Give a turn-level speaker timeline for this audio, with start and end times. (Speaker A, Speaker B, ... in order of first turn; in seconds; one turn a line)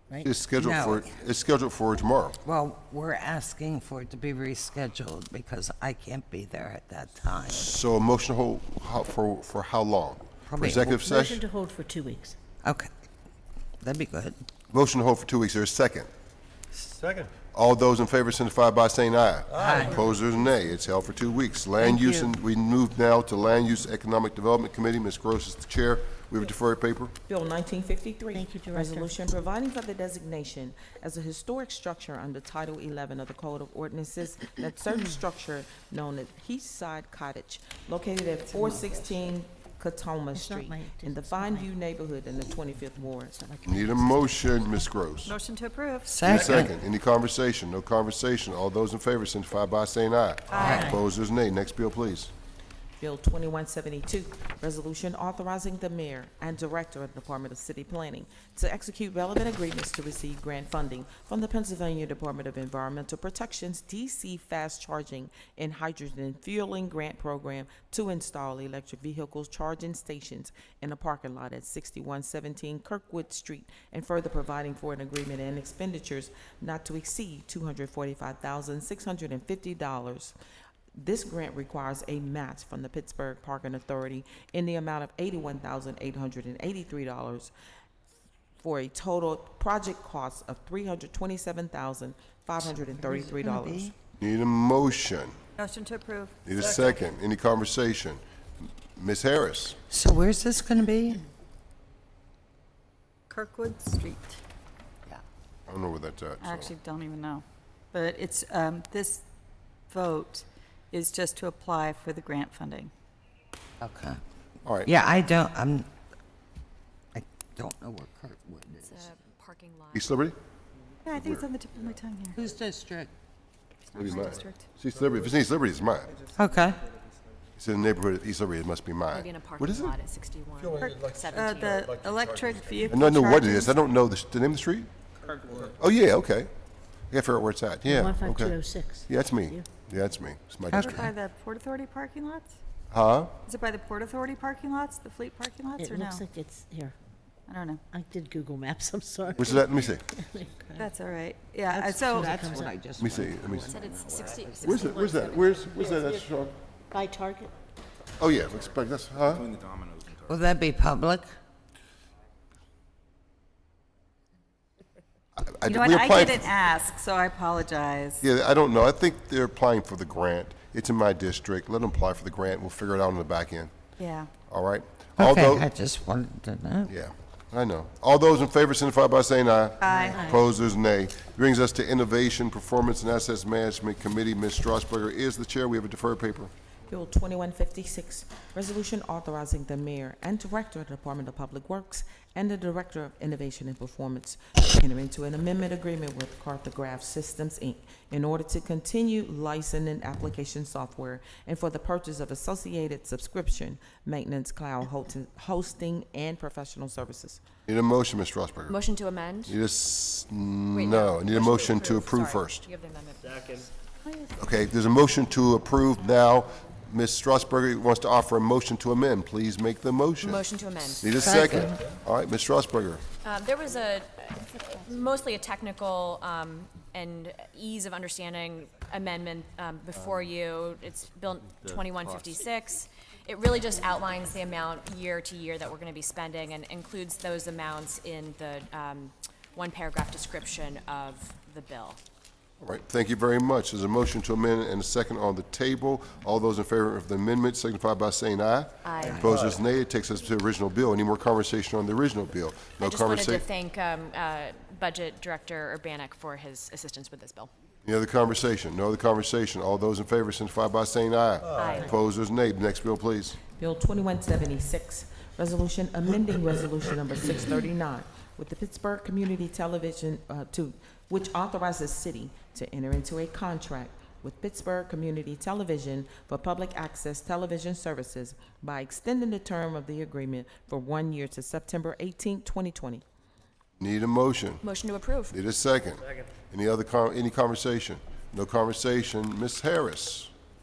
Speaker A: 0.2-2.4
Speaker B: 0.6-1.1
Speaker B: 2.5-7.7
Speaker A: 7.5-11.4
Speaker B: 10.5-11.0
Speaker C: 11.1-12.4
Speaker B: 12.6-12.9
Speaker B: 13.8-14.4
Speaker A: 14.7-16.1
Speaker D: 16.8-17.3
Speaker A: 17.5-27.1
Speaker D: 19.6-19.9
Speaker B: 19.6-20.0
Speaker B: 21.8-22.3
Speaker E: 27.3-43.4
Speaker C: 28.3-29.2
Speaker C: 38.6-39.0
Speaker C: 40.3-41.7
Speaker C: 43.0-44.5
Speaker A: 43.6-45.3
Speaker F: 45.3-46.2
Speaker B: 46.1-46.7
Speaker A: 46.2-52.3
Speaker F: 50.5-50.8
Speaker C: 50.6-51.0
Speaker B: 50.6-50.9
Speaker E: 53.0-80.3
Speaker E: 81.0-87.5
Speaker E: 88.6-93.9
Speaker B: 92.8-93.9
Speaker A: 94.2-95.4
Speaker F: 95.6-96.4
Speaker A: 96.5-98.2
Speaker A: 99.0-99.8
Speaker B: 99.9-101.2
Speaker F: 103.3-104.4
Speaker A: 105.7-106.7
Speaker F: 106.4-109.2
Speaker F: 109.9-112.9
Speaker B: 113.8-114.2
Speaker A: 114.7-114.9
Speaker B: 114.8-115.9
Speaker B: 117.1-119.1
Speaker G: 118.9-120.2
Speaker A: 119.9-120.4
Speaker F: 121.0-122.4
Speaker A: 121.1-121.5
Speaker B: 122.3-123.1
Speaker G: 123.9-124.3
Speaker A: 124.0-126.2
Speaker F: 124.2-124.7
Speaker B: 126.4-126.8
Speaker A: 127.6-129.9
Speaker G: 129.1-131.9
Speaker D: 130.6-132.9
Speaker F: 130.8-133.8
Speaker A: 132.9-134.9
Speaker D: 135.2-135.8
Speaker A: 135.8-136.5
Speaker A: 137.1-141.1
Speaker C: 137.9-139.7
Speaker B: 140.7-141.1
Speaker F: 140.8-142.6
Speaker A: 142.9-143.3
Speaker F: 143.5-146.2
Speaker C: 145.8-147.0
Speaker F: 147.5-147.8
Speaker C: 147.9-150.8
Speaker A: 149.4-150.0
Speaker F: 150.8-152.4
Speaker C: 151.7-152.7
Speaker B: 152.0-154.8
Speaker A: 153.0-153.8
Speaker G: 153.7-155.3
Speaker A: 154.6-156.6
Speaker C: 155.8-156.3
Speaker C: 156.9-157.5
Speaker A: 158.2-159.6
Speaker D: 159.6-160.3
Speaker B: 160.2-161.3
Speaker A: 165.4-166.5
Speaker F: 165.7-168.2
Speaker A: 168.2-173.7
Speaker F: 174.0-174.3
Speaker A: 174.5-175.7
Speaker B: 175.2-176.9
Speaker A: 176.9-186.5
Speaker F: 179.8-180.4
Speaker C: 180.1-180.5
Speaker E: 186.9-207.4
Speaker A: 207.7-208.8
Speaker G: 208.7-209.5
Speaker A: 209.5-212.7
Speaker G: 210.7-213.4
Speaker A: 214.4-220.4
Speaker G: 220.2-221.4
Speaker A: 221.0-223.0
Speaker B: 221.2-221.8
Speaker G: 223.2-242.0
Speaker A: 242.6-253.4
Speaker G: 248.8-249.2
Speaker G: 252.8-257.5
Speaker A: 257.9-263.4
Speaker G: 261.6-261.9
Speaker E: 263.5-283.0
Speaker A: 283.8-284.6
Speaker G: 284.6-285.4
Speaker A: 285.3-290.3